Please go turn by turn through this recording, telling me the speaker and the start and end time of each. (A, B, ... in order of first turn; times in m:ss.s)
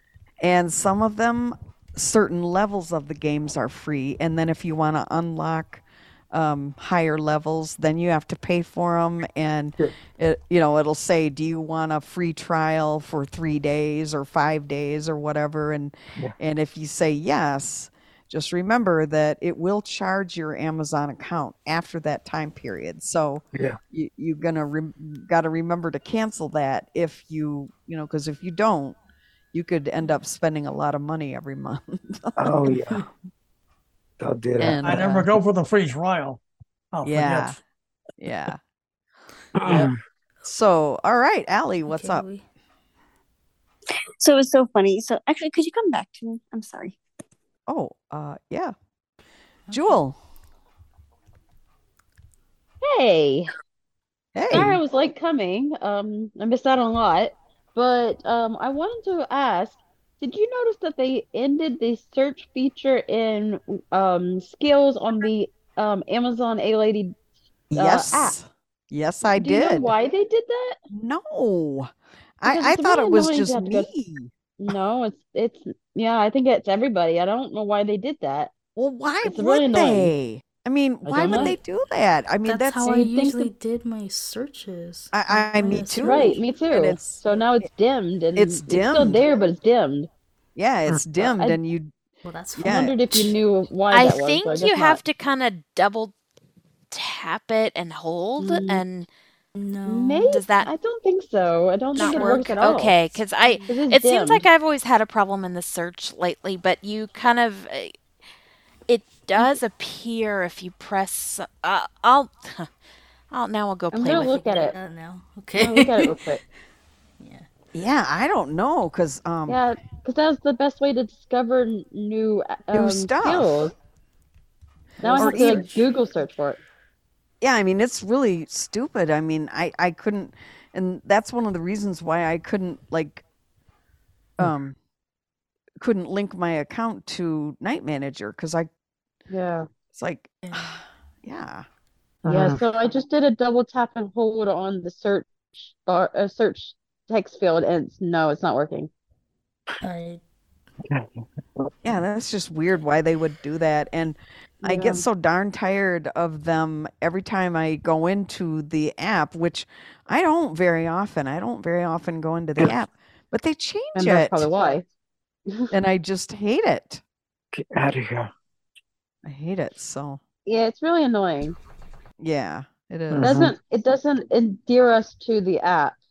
0:00.4-0:29.0 A
0:29.5-0:32.7 A
0:32.4-0:33.0 B
0:34.2-0:35.1 B
0:34.6-0:35.3 A
0:34.8-0:36.4 C
0:36.9-0:37.6 C
0:37.0-0:37.6 A
0:38.2-0:38.6 A
0:39.6-0:39.9 B
0:39.6-0:39.9 A
0:40.4-0:42.3 A
0:41.9-0:42.4 D
0:44.2-0:47.0 E
0:47.7-0:48.7 A
0:49.7-0:50.0 D
0:49.7-0:50.2 A
0:52.8-0:53.5 F
0:54.4-0:54.8 A
0:54.5-1:07.1 F
1:07.7-1:09.9 A
1:07.8-1:08.4 F
1:09.3-1:10.8 F
1:10.9-1:14.3 A
1:12.5-1:13.9 F
1:14.6-1:18.5 F
1:18.8-1:23.0 A
1:19.2-1:20.1 F
1:21.1-1:21.6 F
1:21.2-1:21.6 D
1:22.4-1:26.4 D
1:22.9-1:23.5 F
1:25.1-1:27.2 A
1:25.9-1:30.1 F
1:28.4-1:29.2 A
1:30.6-1:31.9 A
1:31.2-1:31.6 F
1:32.2-1:33.2 D
1:32.6-1:33.3 A
1:32.7-1:35.0 F
1:33.9-1:36.1 G
1:36.9-1:39.1 G
1:38.4-1:38.8 F
1:39.6-1:40.3 D
1:39.9-1:43.1 F
1:40.3-1:40.7 G
1:42.0-1:48.0 G
1:42.0-1:42.4 D
1:43.4-1:43.7 D
1:43.7-1:44.5 F
1:48.9-1:52.7 G
1:53.3-1:54.4 G
1:53.9-1:54.8 F
1:54.3-1:56.2 D
1:55.6-1:56.4 F
1:57.2-1:57.5 D
1:57.7-1:59.6 A
1:59.5-2:03.7 F
2:02.7-2:03.6 A
2:05.0-2:05.8 D
2:05.0-2:06.6 F
2:05.2-2:05.7 A
2:07.4-2:13.2 A
2:14.4-2:14.8 A
2:15.8-2:18.7 A
2:19.3-2:19.7 F
2:19.9-2:21.7 A
2:20.4-2:20.8 D
2:22.3-2:28.9 F
2:29.8-2:30.2 D
2:31.8-2:44.5 A
2:34.6-2:35.0 F
2:44.0-2:44.8 F
2:45.7-2:47.0 A
2:47.5-2:48.3 B
2:49.2-2:50.2 A
2:50.5-2:51.6 F
2:52.2-2:53.5 A
2:53.1-2:53.5 B
2:53.2-2:56.0 F